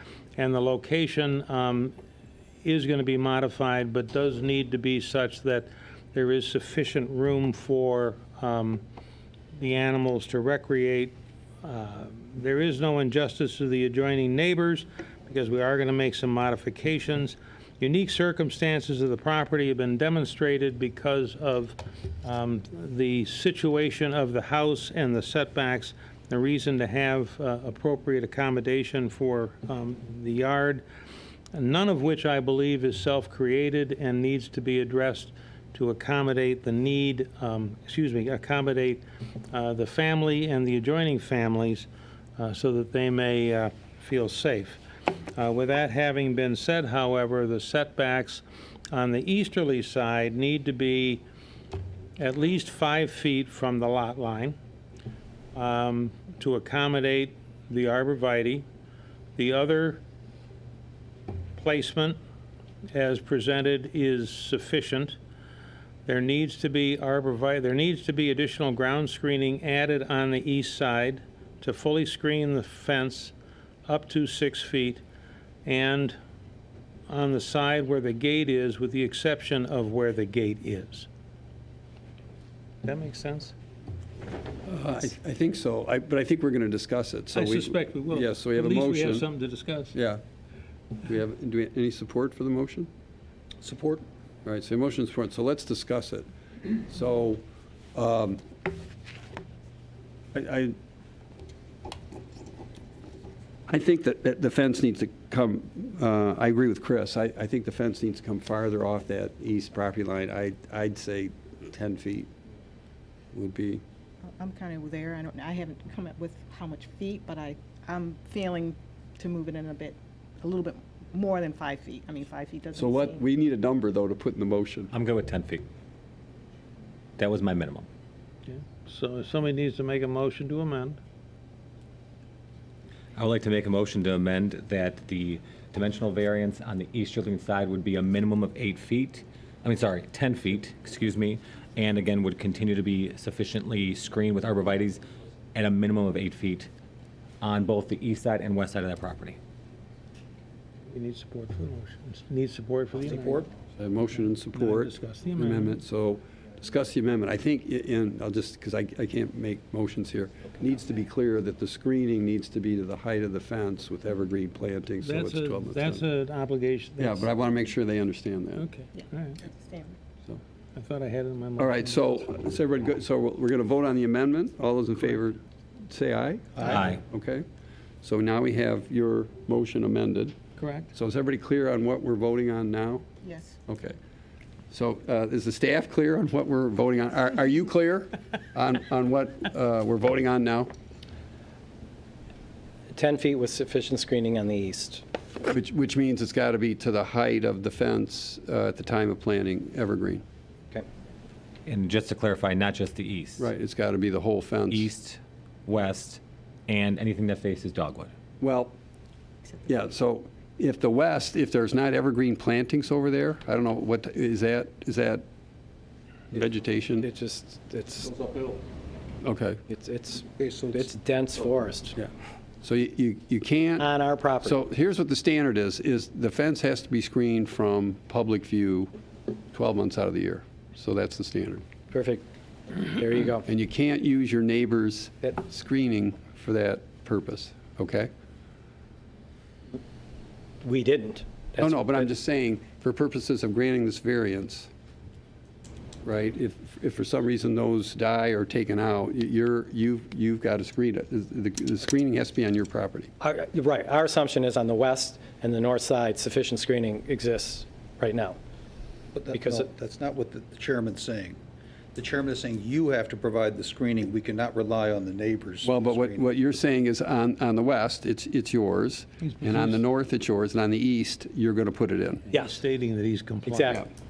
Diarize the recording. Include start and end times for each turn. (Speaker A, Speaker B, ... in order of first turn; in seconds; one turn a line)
Speaker A: 0.4-1.9
Speaker A: 2.6-8.8
Speaker A: 9.5-30.8
Speaker A: 31.5-44.8
Speaker A: 45.3-51.2
Speaker A: 52.2-54.6
Speaker A: 55.5-58.6
Speaker A: 59.4-60.0
Speaker A: 61.5-62.2
Speaker A: 62.9-65.2
Speaker A: 66.0-73.3
Speaker A: 73.8-75.0
Speaker A: 75.6-76.2
Speaker A: 77.1-81.1
Speaker A: 82.8-83.5
Speaker B: 84.7-89.3
Speaker A: 87.3-89.9
Speaker B: 89.9-90.2
Speaker B: 91.0-92.9
Speaker C: 93.6-94.0
Speaker B: 94.4-97.4
Speaker B: 97.9-98.4
Speaker B: 100.3-100.7
Speaker B: 103.7-112.3
Speaker B: 113.3-113.8
Speaker D: 114.2-123.2
Speaker B: 122.7-124.9
Speaker E: 124.9-125.7
Speaker E: 127.2-127.9
Speaker A: 128.5-131.0
Speaker E: 133.2-145.0
Speaker E: 145.5-146.7
Speaker E: 147.4-149.4
Speaker A: 150.9-153.5
Speaker B: 153.8-166.0
Speaker A: 154.5-155.8
Speaker A: 165.0-167.3
Speaker B: 167.0-168.7
Speaker A: 168.6-169.4
Speaker D: 169.0-170.0
Speaker A: 170.7-172.0
Speaker B: 171.6-177.4
Speaker E: 176.7-177.0
Speaker B: 178.0-180.4
Speaker A: 180.6-180.9
Speaker B: 180.9-183.1
Speaker D: 183.2-183.6
Speaker B: 183.7-184.0
Speaker B: 184.7-190.7
Speaker F: 192.9-195.0
Speaker B: 195.4-200.2
Speaker E: 201.7-203.4
Speaker B: 203.4-204.9
Speaker E: 204.7-208.1
Speaker B: 208.4-208.7
Speaker B: 209.7-215.2
Speaker B: 216.3-217.1
Speaker F: 217.0-218.3
Speaker B: 219.2-219.6
Speaker F: 219.7-222.0
Speaker C: 220.4-220.9
Speaker B: 222.6-223.9
Speaker F: 223.8-224.6
Speaker B: 224.4-228.9
Speaker B: 229.5-231.6
Speaker F: 231.9-232.2
Speaker F: 232.8-233.4
Speaker B: 233.4-238.1
Speaker F: 240.6-242.1
Speaker B: 241.6-244.7
Speaker B: 246.0-253.1
Speaker F: 253.2-258.4
Speaker C: 259.1-261.4
Speaker F: 259.3-259.7
Speaker C: 261.9-266.2
Speaker B: 265.6-272.3
Speaker A: 269.2-269.8
Speaker F: 272.3-272.6
Speaker A: 272.3-273.9
Speaker F: 273.4-273.9